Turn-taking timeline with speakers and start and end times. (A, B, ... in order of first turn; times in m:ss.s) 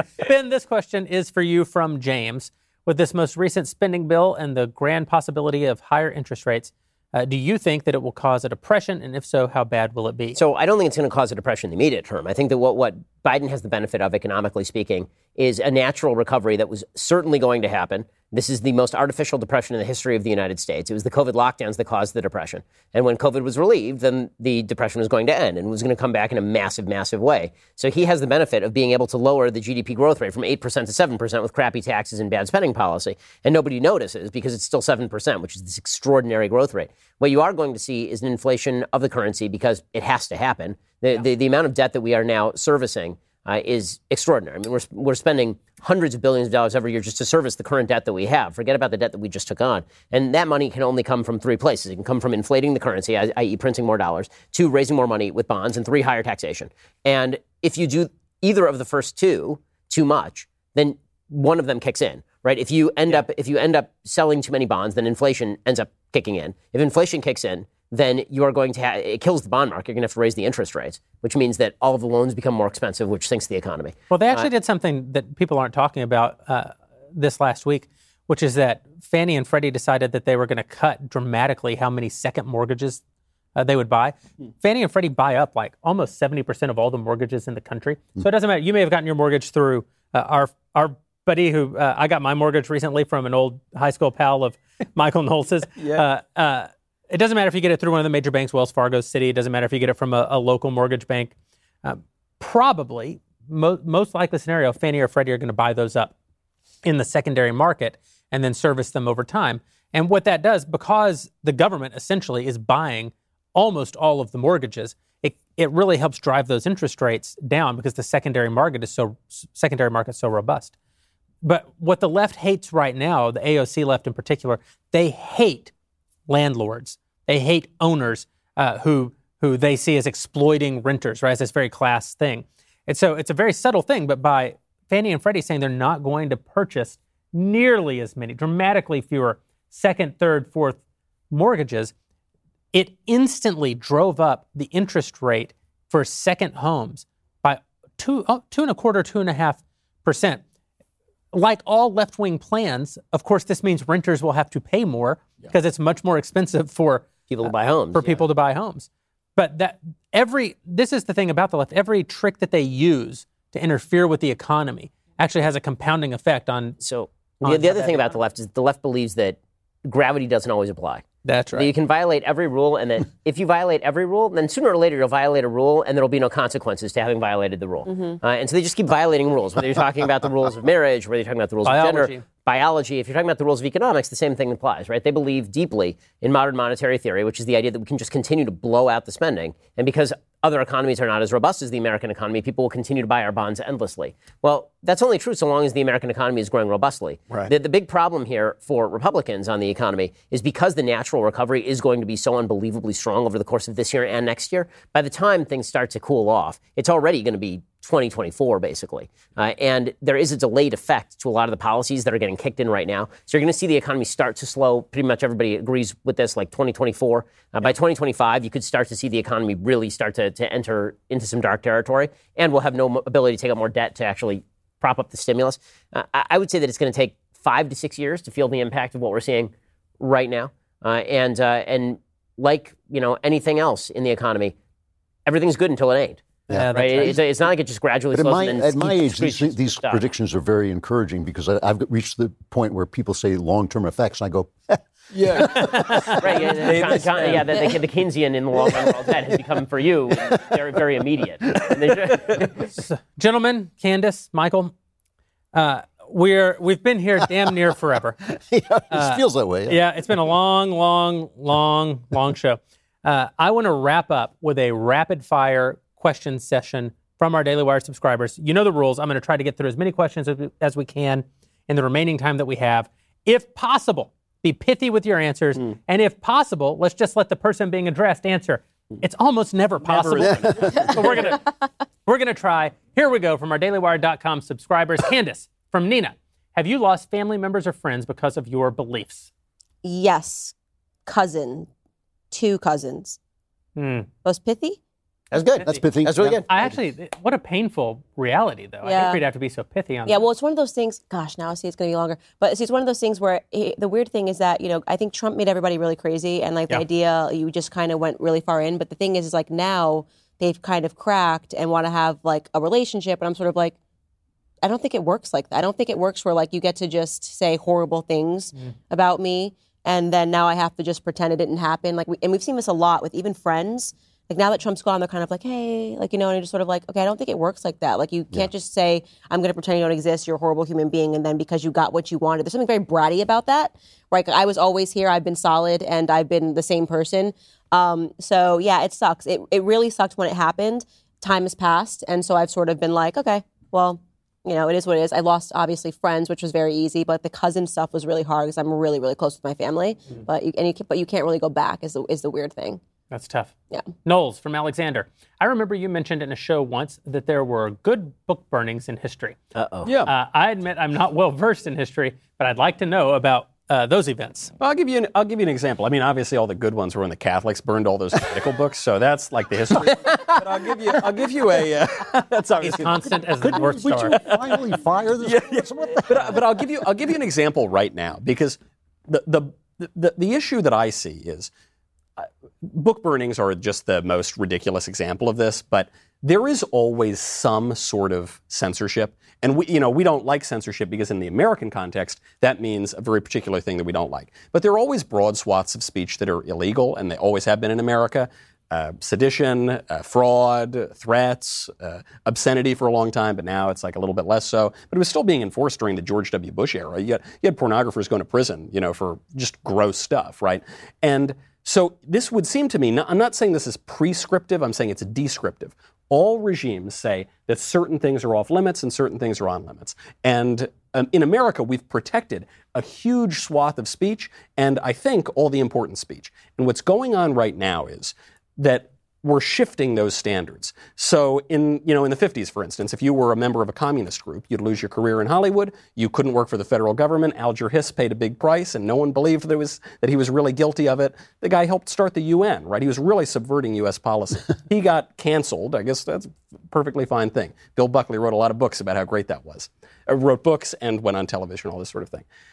0:00.2-0:10.4 A
0:10.4-1:14.5 B
1:14.1-1:23.0 A
1:23.6-1:41.3 A
1:41.8-1:46.2 A
1:46.8-2:00.8 A
2:01.4-2:05.7 A
2:06.3-2:20.8 A
2:21.3-2:21.9 A
2:22.7-2:30.4 A
2:31.3-2:37.1 A
2:37.3-2:38.2 B
2:37.9-2:46.8 A
2:46.8-3:54.6 B
2:47.4-2:48.2 A
2:51.2-2:51.7 A
3:01.6-3:02.2 A
3:55.2-4:00.0 B
3:56.5-3:57.2 C
3:56.5-3:57.1 A
3:58.1-4:05.8 C
4:05.1-4:07.6 D
4:05.4-4:06.2 A
4:06.2-4:12.6 B
4:12.5-4:14.7 A
4:15.5-4:18.2 A
4:18.2-4:19.8 C
4:18.9-4:41.5 A
4:39.8-4:41.4 D
4:42.1-4:49.3 A
4:49.8-4:50.6 E
4:51.1-4:51.7 E
4:52.3-4:53.2 E
4:53.8-4:54.1 A
4:54.2-4:54.8 E
4:55.3-4:56.7 B
4:55.6-4:56.7 C
4:56.5-5:00.2 A
4:58.8-4:59.2 E
5:00.1-5:13.8 E
5:14.6-5:52.8 E
5:53.1-5:53.5 A
5:54.0-5:59.4 A
5:59.6-6:00.0 B
5:59.8-6:00.1 D
6:00.0-6:04.5 A
6:04.6-6:13.2 D
6:12.6-6:14.2 A
6:13.3-6:16.4 C
6:14.1-6:21.5 D
6:22.2-7:32.2 D